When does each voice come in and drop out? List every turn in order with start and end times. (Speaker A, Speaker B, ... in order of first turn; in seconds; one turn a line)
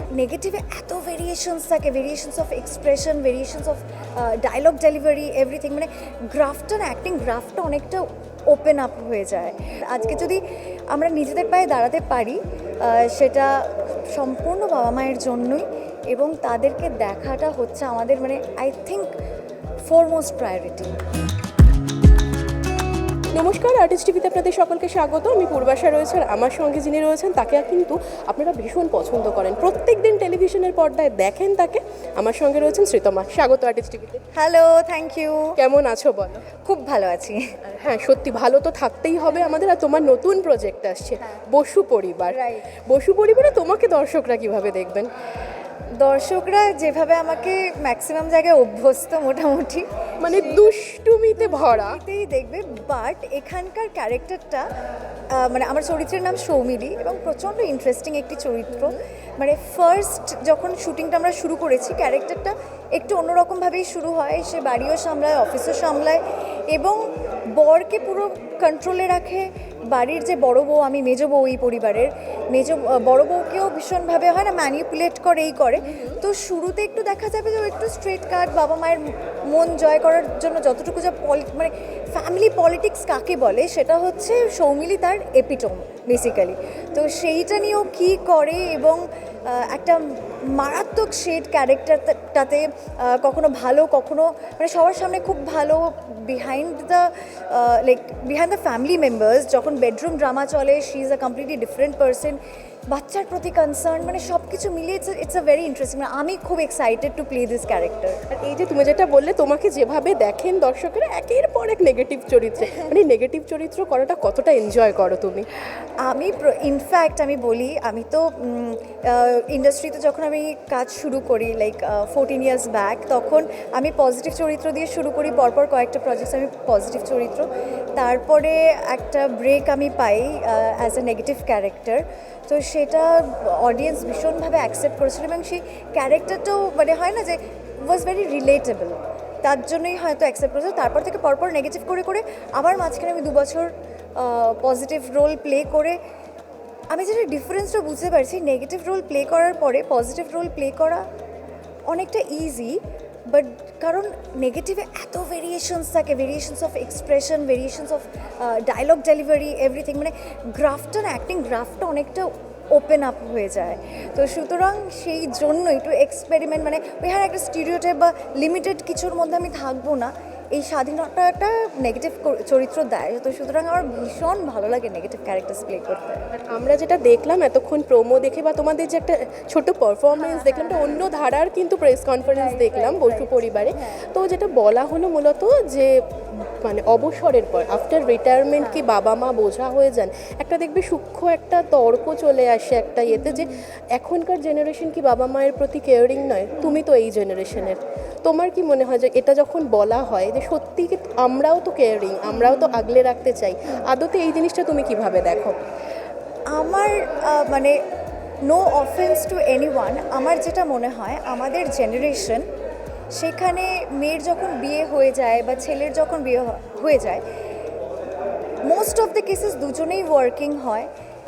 Speaker A: 0.1-19.1
Speaker A: 19.9-21.0
Speaker B: 23.3-34.2
Speaker A: 34.3-35.6
Speaker B: 35.5-36.5
Speaker A: 36.6-37.6
Speaker B: 37.7-45.1
Speaker A: 42.3-42.7
Speaker A: 46.0-50.7
Speaker B: 50.2-52.0
Speaker A: 51.4-54.7
Speaker A: 55.3-108.2
Speaker B: 58.7-59.0
Speaker B: 75.8-76.2
Speaker B: 108.3-115.5
Speaker A: 116.0-146.0
Speaker A: 146.9-151.0
Speaker A: 151.9-152.8
Speaker A: 153.3-176.2
Speaker B: 176.3-205.6
Speaker A: 180.2-181.0
Speaker A: 182.3-183.8
Speaker A: 193.1-193.6
Speaker A: 196.6-196.8
Speaker A: 202.3-202.8
Speaker A: 206.5-207.8
Speaker A: 208.5-212.4
Speaker A: 213.1-217.2
Speaker A: 218.7-220.9